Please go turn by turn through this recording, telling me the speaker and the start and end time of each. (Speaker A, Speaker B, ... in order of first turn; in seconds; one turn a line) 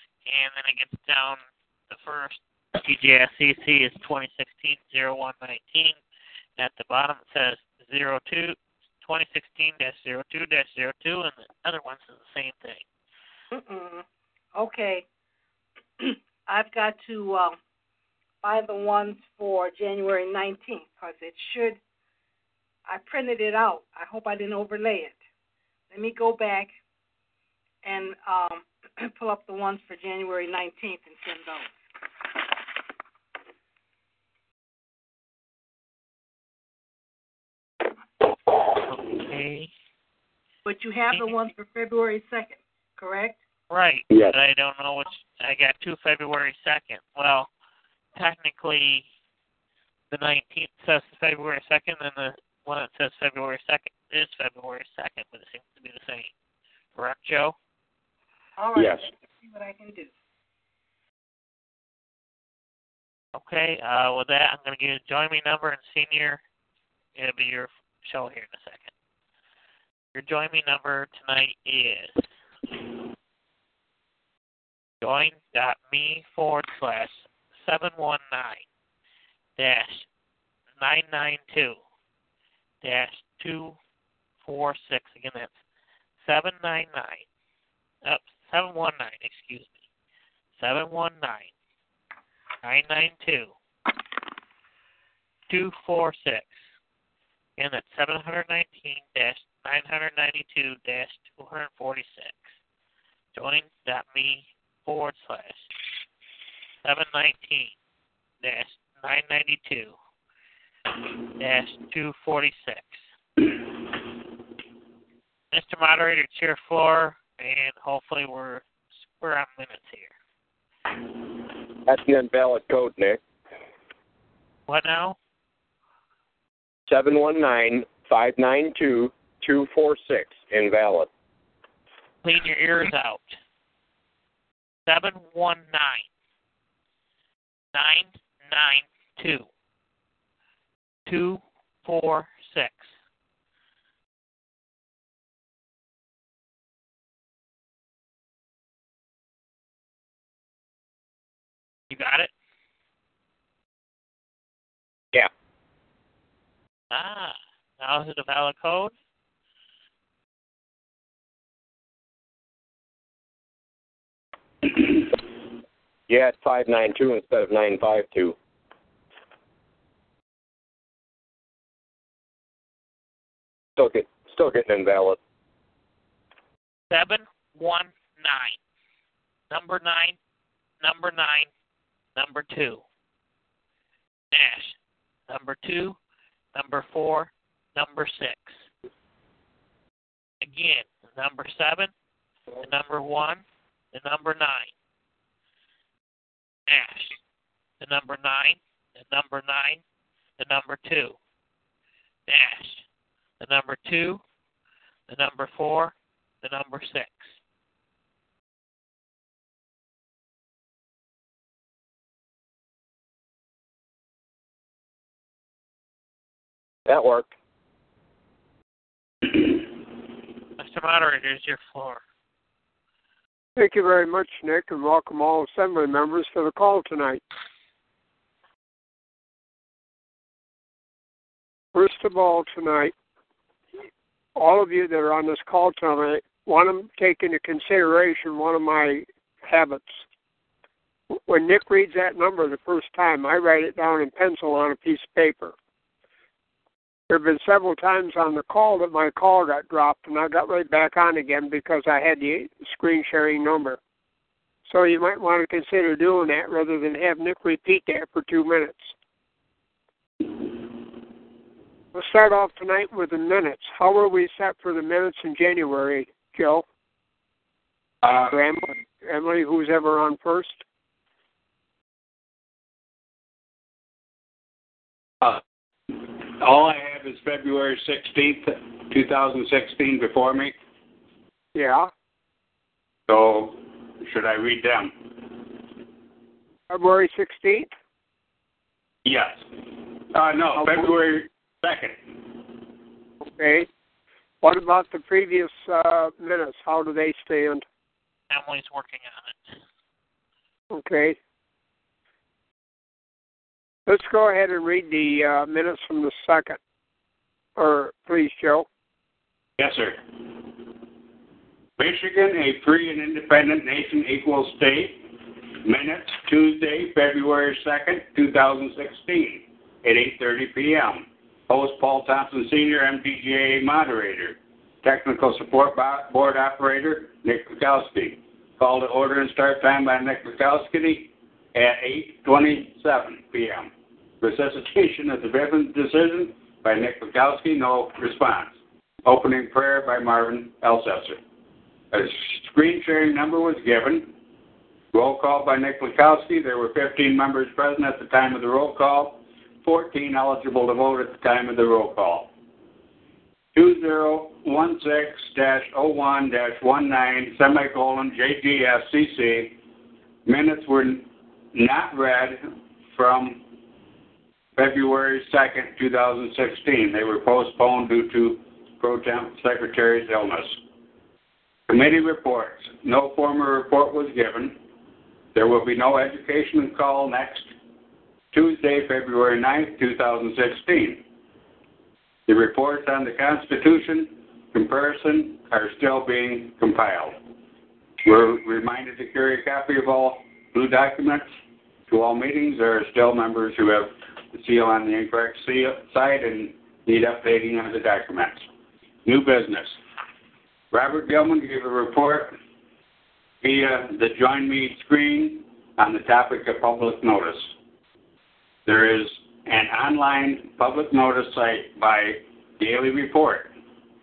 Speaker A: 0.2-6.0
Speaker A: 6.6-12.8
Speaker B: 13.5-15.0
Speaker B: 16.0-17.6
Speaker B: 18.4-21.8
Speaker B: 22.9-25.2
Speaker B: 25.9-26.7
Speaker B: 27.8-31.7
Speaker A: 38.7-39.7
Speaker B: 40.6-43.4
Speaker A: 43.7-47.5
Speaker C: 44.1-44.4
Speaker A: 48.1-49.0
Speaker A: 50.1-56.3
Speaker A: 56.9-57.5
Speaker B: 58.6-60.1
Speaker C: 58.8-59.0
Speaker A: 63.3-66.4
Speaker A: 67.1-68.9
Speaker A: 70.1-72.3
Speaker A: 75.0-78.6
Speaker A: 79.6-80.1
Speaker A: 80.8-81.8
Speaker A: 82.8-83.8
Speaker A: 84.4-85.5
Speaker A: 86.2-87.2
Speaker A: 88.0-89.8
Speaker A: 90.6-91.5
Speaker A: 92.6-93.5
Speaker A: 95.5-96.5
Speaker A: 97.6-102.5
Speaker A: 103.3-105.7
Speaker A: 106.8-107.7
Speaker A: 108.4-109.9
Speaker A: 111.4-113.0
Speaker A: 115.5-118.7
Speaker A: 119.2-120.1
Speaker D: 121.8-123.2
Speaker A: 124.7-125.2
Speaker D: 126.9-131.1
Speaker A: 132.2-133.4
Speaker A: 134.8-136.1
Speaker A: 137.7-139.5
Speaker A: 141.1-142.9
Speaker A: 151.9-152.3
Speaker A: 156.9-158.9
Speaker D: 166.1-168.3
Speaker D: 173.8-175.2
Speaker A: 176.9-178.6
Speaker A: 179.5-180.2
Speaker A: 180.8-181.5
Speaker A: 182.1-182.8
Speaker A: 184.3-184.8
Speaker A: 185.3-186.0
Speaker A: 186.5-188.6
Speaker A: 190.4-191.9
Speaker A: 192.6-194.7
Speaker A: 196.7-197.2
Speaker A: 197.8-199.8
Speaker A: 200.4-201.2
Speaker A: 202.3-202.8
Speaker A: 203.4-204.2
Speaker A: 205.1-207.3
Speaker D: 216.8-217.3
Speaker A: 220.6-222.0
Speaker E: 223.6-227.2
Speaker E: 231.7-232.9
Speaker E: 234.3-240.0
Speaker E: 241.1-245.5
Speaker E: 247.1-253.8
Speaker E: 254.7-258.9
Speaker E: 261.9-266.6
Speaker C: 268.0-268.3
Speaker E: 268.2-270.6
Speaker C: 275.2-280.5
Speaker E: 281.5-281.9
Speaker C: 283.1-285.1
Speaker E: 286.7-287.7
Speaker C: 289.0-292.2
Speaker E: 290.6-290.8
Speaker E: 293.2-293.7
Speaker E: 294.4-297.6
Speaker A: 298.3-299.6
Speaker E: 300.7-301.2
Speaker E: 303.9-306.6
Speaker E: 307.6-308.7
Speaker C: 309.6-310.0
Speaker C: 311.8-341.2
Speaker C: 341.9-344.1
Speaker C: 344.9-352.3
Speaker C: 353.5-359.6
Speaker C: 360.2-363.5
Speaker C: 364.6-370.6
Speaker C: 371.7-374.6
Speaker C: 375.3-377.5
Speaker C: 378.3-381.0
Speaker C: 382.3-387.2
Speaker C: 388.0-391.2
Speaker C: 391.9-398.4
Speaker C: 399.0-399.8
Speaker C: 400.7-402.4
Speaker C: 403.4-407.5
Speaker C: 408.6-413.5